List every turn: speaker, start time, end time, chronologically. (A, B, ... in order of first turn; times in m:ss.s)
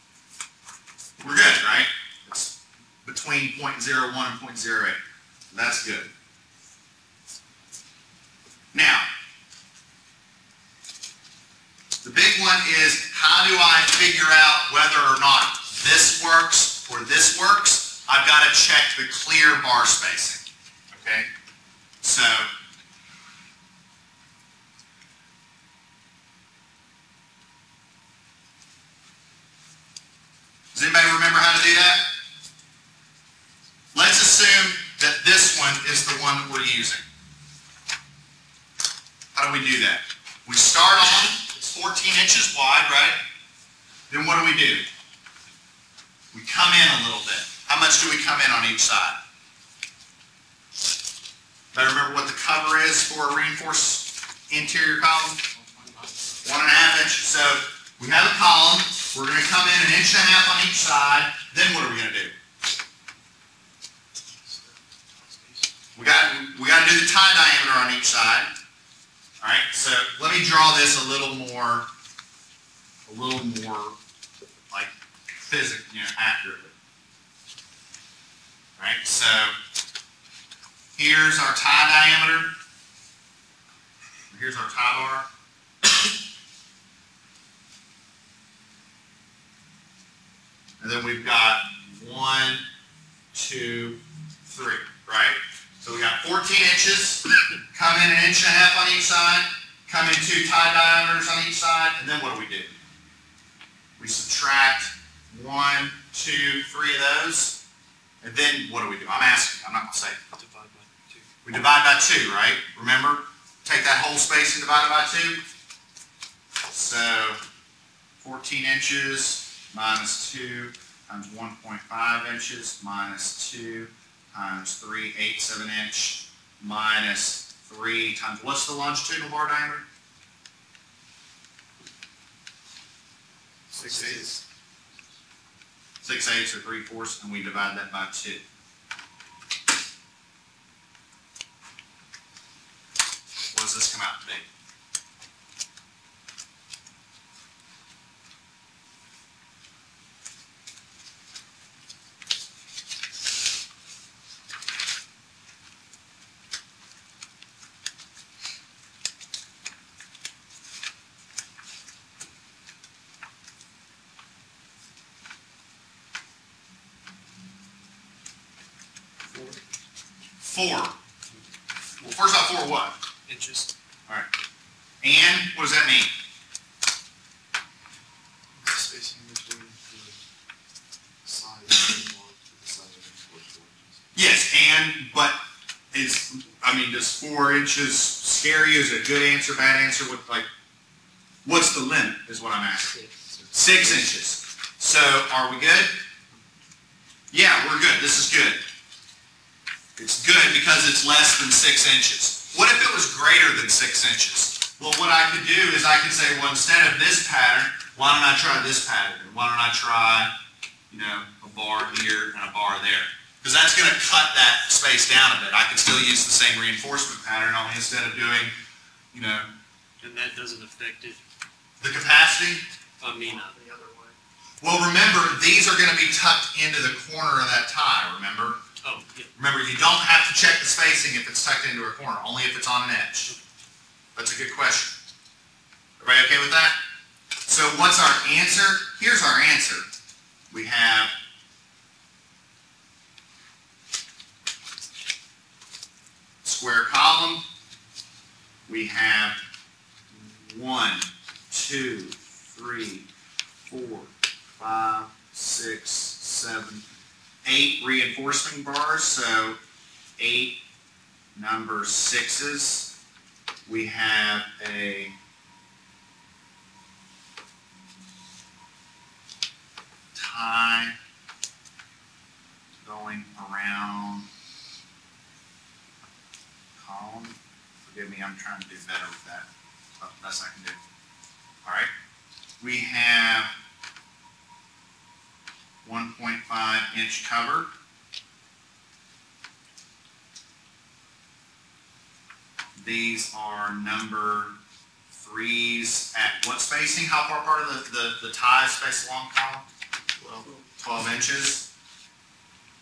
0:01.2-0:05.0 A
0:05.5-0:06.1 A
0:08.7-0:09.1 A
0:12.0-0:21.3 A
0:22.0-0:22.5 A
0:30.7-0:32.1 A
0:33.9-0:37.0 A
0:39.4-0:43.2 A
0:44.1-0:44.9 A
0:46.3-0:49.2 A
0:51.7-0:55.4 A
0:55.7-0:56.3 B
0:56.4-1:02.3 A
1:04.4-1:05.7 B
1:06.0-1:08.5 A
1:09.4-1:11.9 A
1:13.1-1:14.0 A
1:15.5-1:16.7 A
1:18.8-1:19.5 A
1:21.0-1:22.5 A
1:24.3-1:25.3 A
1:30.8-1:32.6 A
1:33.3-1:42.8 A
1:44.0-1:47.6 A
1:48.2-1:50.2 A
1:50.3-1:51.3 B
1:51.4-1:55.4 A
1:56.7-1:57.4 A
1:58.2-2:09.8 A
2:13.7-2:14.2 A
2:13.7-2:14.4 B
2:16.0-2:18.4 A
2:23.5-2:24.5 A
2:49.3-2:49.6 B
2:50.4-2:51.0 A
2:52.0-2:53.0 A
2:55.0-2:56.1 A
2:58.5-3:00.2 B
3:01.2-3:04.2 B
3:04.2-3:05.4 A
3:05.9-3:10.5 A
3:11.4-3:13.0 A
3:13.0-3:14.0 B
3:13.5-3:16.0 A
3:17.3-3:18.6 A
3:20.0-3:30.3 A
3:30.9-3:38.5 A
3:39.1-3:39.5 A
3:40.0-3:41.2 C
3:41.8-3:42.6 A
3:43.0-3:43.6 C
3:43.2-3:44.2 B
3:44.6-3:48.6 A
3:48.8-3:49.3 C
3:49.4-3:53.3 A
3:54.2-3:55.0 A
3:56.0-3:56.8 A
3:57.5-3:59.9 A
4:00.5-4:01.1 A
4:06.4-4:07.4 A
4:08.7-4:09.4 A
4:10.1-4:13.1 A
4:13.7-4:16.8 A
4:17.4-4:19.6 A
4:20.2-4:20.6 A
4:21.4-4:22.9 A
4:23.7-4:25.2 A
4:30.1-4:31.0 A
4:32.8-4:34.3 A
4:36.8-4:39.5 A
4:40.0-4:40.8 A
4:41.6-4:41.9 A
4:42.6-4:43.5 A
4:45.8-4:47.7 A
4:52.8-4:54.6 A
4:55.1-4:59.6 A
5:00.2-5:00.5 B
5:00.8-5:01.7 A